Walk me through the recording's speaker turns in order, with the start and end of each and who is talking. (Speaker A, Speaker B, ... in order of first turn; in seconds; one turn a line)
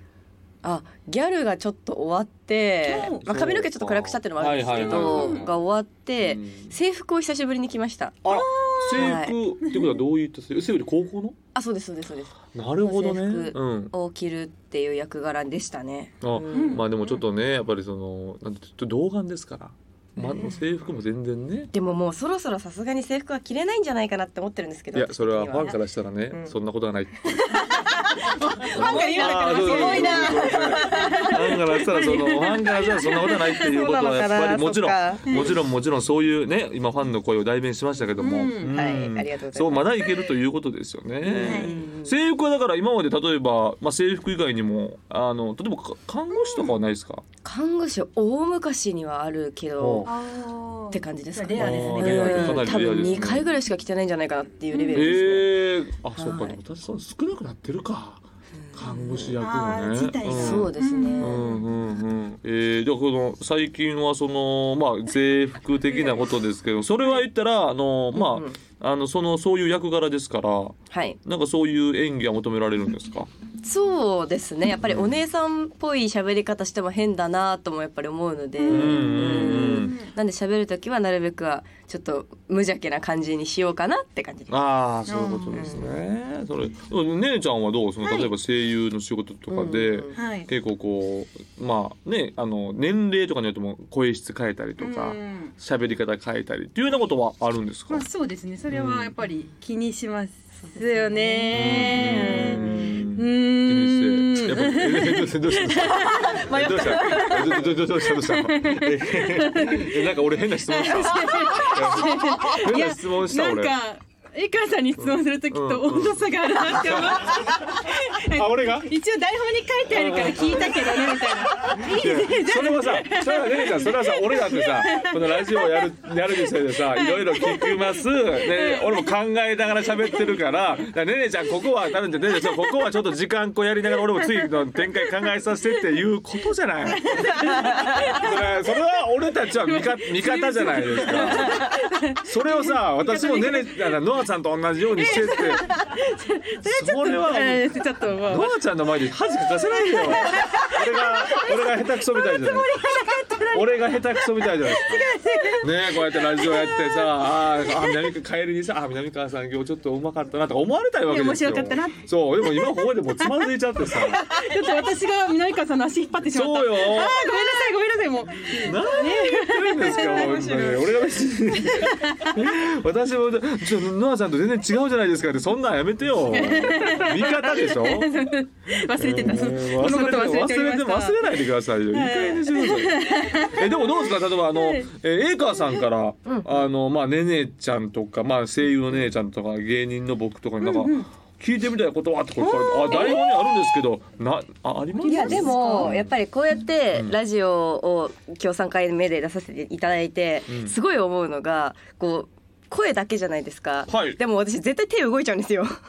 Speaker A: 0.6-8.2
Speaker B: 2.9-3.2
Speaker C: 3.2-5.5
Speaker B: 4.8-5.5
Speaker C: 6.2-6.7
Speaker C: 8.2-11.3
Speaker B: 8.3-9.9
Speaker A: 8.9-9.3
Speaker A: 11.5-17.1
Speaker C: 12.5-13.9
Speaker C: 16.2-21.7
Speaker B: 16.5-16.9
Speaker A: 20.2-20.6
Speaker A: 21.7-25.8
Speaker C: 24.9-27.6
Speaker A: 27.5-31.8
Speaker B: 27.7-33.2
Speaker C: 28.7-47.2
Speaker A: 33.0-35.5
Speaker B: 35.3-35.5
Speaker B: 38.2-38.8
Speaker A: 38.6-39.9
Speaker A: 41.2-42.1
Speaker B: 41.4-41.8
Speaker A: 47.4-50.1
Speaker C: 49.8-50.1
Speaker B: 50.0-52.8
Speaker A: 50.9-55.5
Speaker C: 51.5-53.5
Speaker B: 54.7-55.0
Speaker C: 54.9-58.2
Speaker A: 56.1-56.6
Speaker A: 58.7-59.4
Speaker C: 58.7-73.3
Speaker B: 59.4-61.4
Speaker A: 60.2-61.5
Speaker A: 68.1-68.6
Speaker A: 70.9-71.2
Speaker A: 73.6-84.5
Speaker C: 74.8-75.2
Speaker B: 78.6-80.0
Speaker C: 78.7-80.0
Speaker C: 84.5-98.0
Speaker B: 85.1-85.7
Speaker A: 85.5-85.9
Speaker A: 89.5-90.1
Speaker B: 90.1-90.5
Speaker B: 94.8-95.5
Speaker B: 97.9-106.3
Speaker C: 98.7-99.1
Speaker A: 100.9-103.0
Speaker C: 101.5-113.8
Speaker A: 105.9-107.8
Speaker B: 107.0-107.5
Speaker B: 108.2-109.9
Speaker B: 110.7-125.8
Speaker C: 115.0-118.9
Speaker C: 119.9-145.7
Speaker B: 127.0-127.9
Speaker B: 128.4-129.0
Speaker B: 137.0-138.3
Speaker A: 137.4-137.8
Speaker B: 139.7-143.8
Speaker B: 145.0-148.5
Speaker C: 146.6-152.9
Speaker B: 150.0-157.1
Speaker C: 153.5-155.1
Speaker C: 155.6-164.3
Speaker B: 161.1-162.0
Speaker B: 163.9-170.6
Speaker C: 166.2-167.3
Speaker C: 168.4-178.2
Speaker A: 169.8-171.0
Speaker B: 171.7-172.3
Speaker B: 176.4-181.2
Speaker C: 178.9-196.1
Speaker B: 181.9-183.7
Speaker B: 184.5-184.9
Speaker A: 186.2-186.5
Speaker B: 190.6-191.1
Speaker B: 192.4-193.2
Speaker B: 194.9-195.9
Speaker A: 195.0-205.7
Speaker C: 200.5-200.7
Speaker C: 203.9-204.2